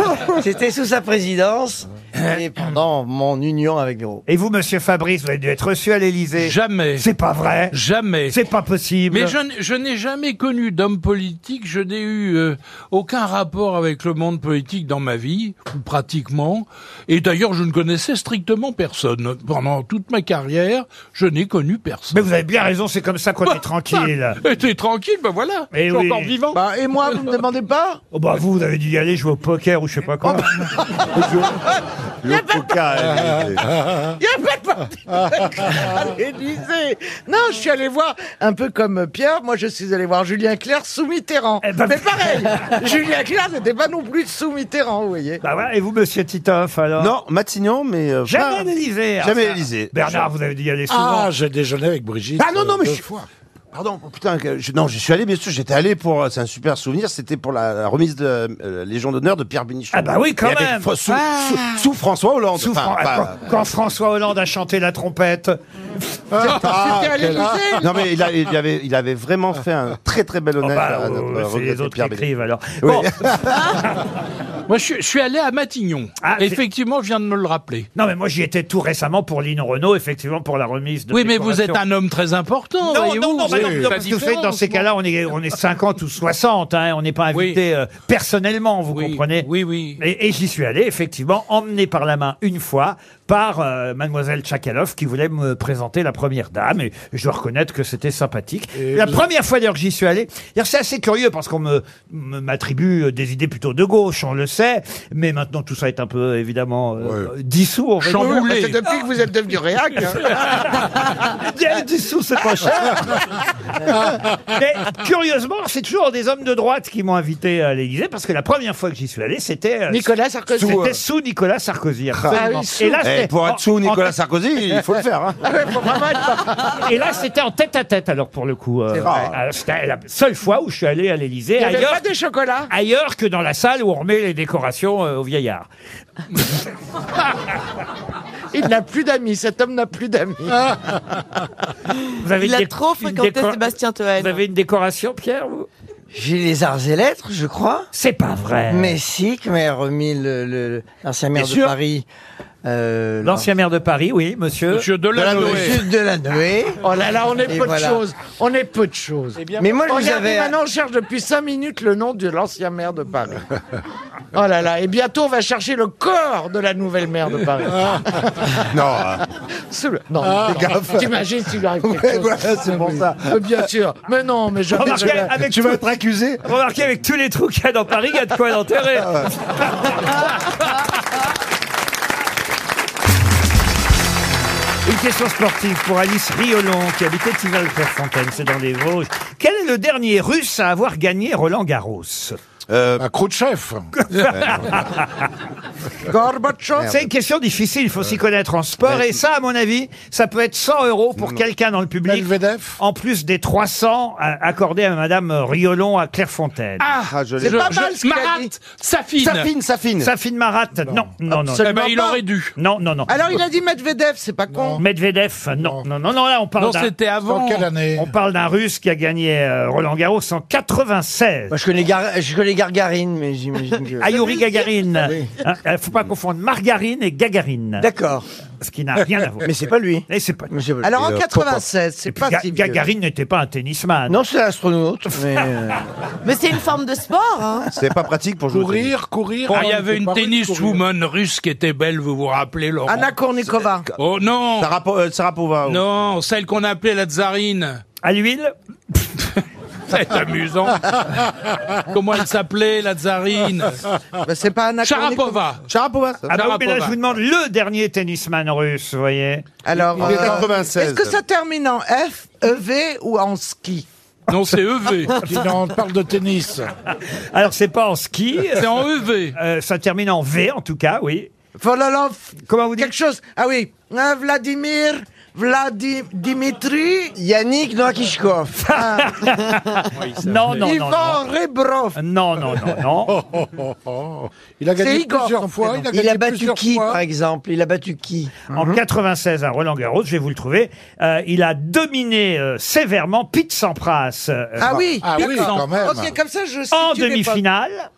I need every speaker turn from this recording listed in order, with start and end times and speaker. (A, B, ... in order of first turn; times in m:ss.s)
0:00.3-0:04.2 A
0:02.2-0:02.4 B
0:04.3-0:07.8 C
0:06.4-0:07.1 B
0:07.7-0:08.4 B
0:08.3-0:09.4 C
0:09.1-0:22.2 B
0:22.1-0:24.4 C
0:24.4-0:26.6 B
0:25.7-0:26.3 C
0:26.5-0:28.0 D
0:28.1-0:30.6 C
0:30.2-0:31.2 D
0:31.1-0:31.6 E
0:32.2-0:33.8 E
0:32.2-0:32.8 D
0:34.2-0:45.4 D
0:41.6-0:42.6 C
0:45.4-0:47.1 C
0:47.0-0:50.3 E
0:48.3-0:51.3 C
0:50.9-0:53.2 F
0:52.4-1:03.4 E
0:59.9-1:00.9 C
1:01.1-1:01.6 F
1:02.6-1:05.6 C
1:06.4-1:07.7 F
1:06.4-1:12.3 E
1:06.7-1:07.8 D
1:10.6-1:13.1 C
1:12.8-1:13.7 E
1:13.5-1:13.8 G
1:14.7-1:17.9 B
1:16.2-1:16.6 C
1:18.0-1:21.8 C
1:21.1-1:24.4 B
1:22.8-1:48.5 C
1:23.5-1:24.8 F
1:27.3-1:27.6 B
1:28.9-1:30.0 B
1:38.7-1:39.3 F
1:48.0-1:48.8 B
1:48.1-1:50.6 D
1:50.5-1:53.2 C
1:53.8-2:04.2 C
1:59.9-2:00.9 D
2:00.6-2:00.9 E
2:02.3-2:03.0 D
2:03.0-2:05.4 E
2:05.4-2:06.8 D
2:06.8-2:12.0 C
2:09.0-2:09.2 D
2:09.0-2:09.4 E
2:11.6-2:12.7 D
2:12.7-2:15.7 C
2:18.5-2:20.8 D
2:22.2-2:23.6 C
2:22.4-2:24.4 G
2:24.2-2:25.7 C
2:26.1-2:27.9 A
2:27.9-2:29.0 C
2:28.7-2:32.0 A
2:31.3-2:31.7 C
2:32.6-2:33.5 A
2:33.2-2:34.8 C
2:34.7-2:35.8 B
2:35.1-2:35.9 E
2:35.3-2:36.8 A
2:36.8-2:43.4 D
2:37.5-2:38.0 A
2:39.4-2:39.7 B
2:39.6-2:40.5 A
2:44.3-2:48.4 D
2:48.6-2:49.2 E
2:49.7-2:55.3 D
2:50.2-2:50.6 F
2:50.4-2:51.1 E
2:51.8-2:53.7 E
2:54.7-2:55.8 C
2:54.8-2:56.4 E
2:56.4-3:00.1 C
2:59.0-2:59.3 E
3:04.8-3:12.4 C
3:12.7-3:13.0 E
3:13.0-3:13.9 F
3:14.0-3:15.2 C
3:14.2-3:15.0 E
3:16.0-3:17.0 D
3:16.8-3:26.8 C
3:22.0-3:22.8 F
3:26.8-3:29.5 B
3:27.1-3:27.8 E
3:27.4-3:28.5 D
3:29.2-3:30.1 E
3:30.0-3:31.7 C
3:31.3-3:32.2 D
3:31.6-3:32.5 B
3:32.6-3:33.1 C
3:33.1-3:34.8 D
3:34.5-3:34.8 F
3:34.8-3:36.9 C
3:35.6-3:35.8 F
3:36.6-3:37.7 B
3:37.2-3:38.1 F
3:38.0-3:41.5 C
3:41.5-3:44.4 A
3:44.0-3:47.9 C
3:45.0-3:45.3 A
3:47.8-3:48.2 A
3:48.6-3:49.5 C
3:49.4-3:50.9 A
3:50.1-3:50.5 C
3:50.8-3:52.8 D
3:51.0-3:51.6 E
3:52.1-3:54.2 C
3:54.1-3:55.8 A
3:56.2-3:57.7 G
3:57.7-3:58.9 E
3:58.5-4:00.8 F
3:59.5-4:03.1 B
4:02.8-4:03.9 D
4:04.0-4:04.7 B
4:04.6-4:05.8 E
4:05.6-4:07.8 B
4:08.0-4:09.0 C
4:09.9-4:11.2 B
4:11.8-4:13.8 B
4:14.2-4:15.5 D
4:14.8-4:15.6 B
4:15.7-4:16.3 E
4:16.3-4:19.5 C
4:16.3-4:17.0 B
4:19.6-4:23.8 D
4:19.7-4:21.2 E
4:20.0-4:20.4 F
4:24.3-4:25.1 B
4:25.2-4:26.7 F
4:26.9-4:28.7 C
4:28.5-4:29.4 B
4:29.3-4:31.3 C
4:31.6-4:37.2 D
4:32.4-4:32.9 C
4:37.2-4:38.7 A
4:38.6-4:41.2 C
4:38.7-4:39.2 D
4:40.0-4:40.2 B
4:40.6-4:42.0 D
4:42.0-4:43.2 C
4:43.1-4:47.0 F
4:44.8-4:45.9 D
4:45.9-4:48.5 A
4:48.5-4:54.8 C
4:54.6-4:57.4 D
4:55.0-4:56.1 F
4:55.2-4:55.9 B
4:56.7-4:57.9 C